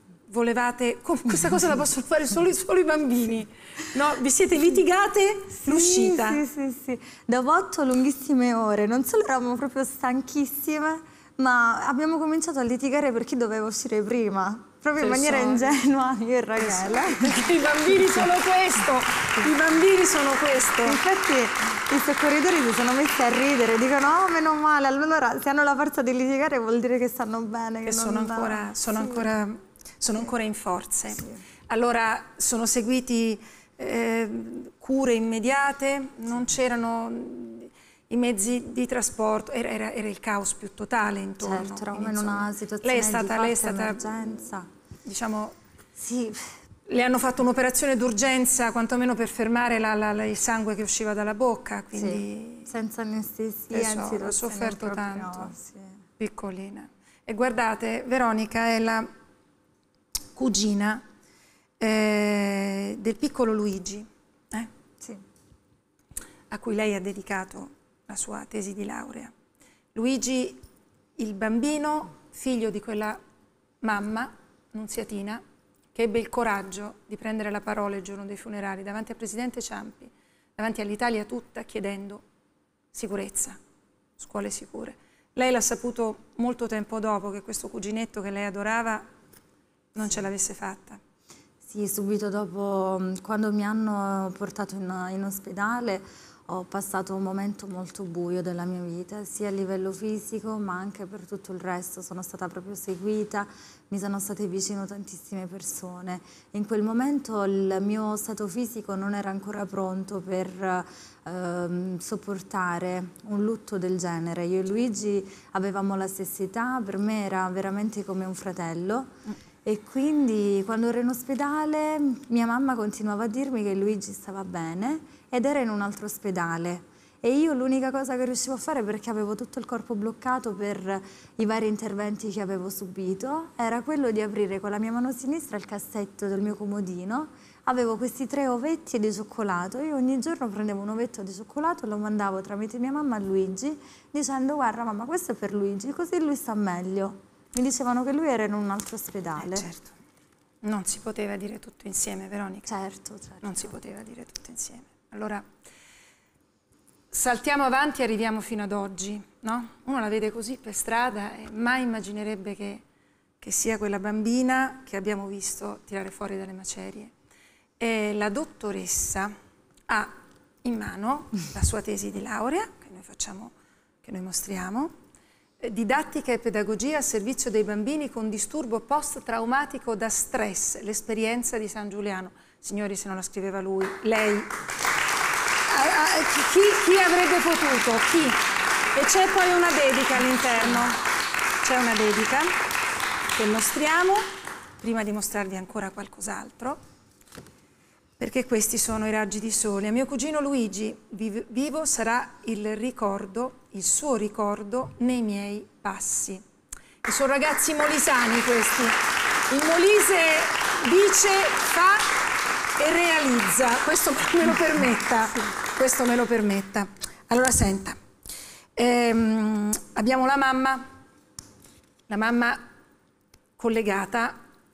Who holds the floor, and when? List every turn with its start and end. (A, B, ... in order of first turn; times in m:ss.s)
0:00.3-0:06.4 A
0:05.6-0:17.5 B
0:15.0-0:15.7 A
0:16.6-0:21.0 A
0:20.8-0:29.3 B
0:27.8-0:44.5 A
0:41.4-0:44.7 B
0:45.0-0:45.6 A
0:46.0-0:46.4 B
0:46.9-0:52.7 A
0:51.9-0:56.0 B
0:53.7-0:55.5 A
0:56.2-0:59.1 A
1:00.4-1:01.0 A
1:01.8-1:04.7 A
1:06.5-1:09.3 A
1:10.0-1:10.6 A
1:11.2-1:13.2 A
1:13.8-1:15.4 A
1:15.9-1:22.2 A
1:22.9-1:23.6 A
1:24.2-1:29.1 A
1:30.0-1:31.0 A
1:31.6-1:59.1 B
1:59.6-2:29.7 B
2:29.4-2:29.9 A
2:30.6-2:32.7 A
2:32.7-2:33.7 B
2:33.4-2:35.5 A
2:37.1-2:42.8 A
2:43.4-2:47.1 A
2:47.8-2:49.3 A
2:49.9-2:50.1 A
2:50.6-2:53.5 A
2:54.0-2:54.9 A
2:55.6-3:04.5 A
3:05.7-3:08.4 A
3:08.9-3:11.0 A
3:11.6-3:12.6 A
3:13.3-3:16.8 A
3:18.2-3:26.4 A
3:27.0-3:32.2 A
3:32.8-3:38.0 A
3:38.8-3:40.9 A
3:42.1-3:42.6 A
3:43.6-3:44.4 A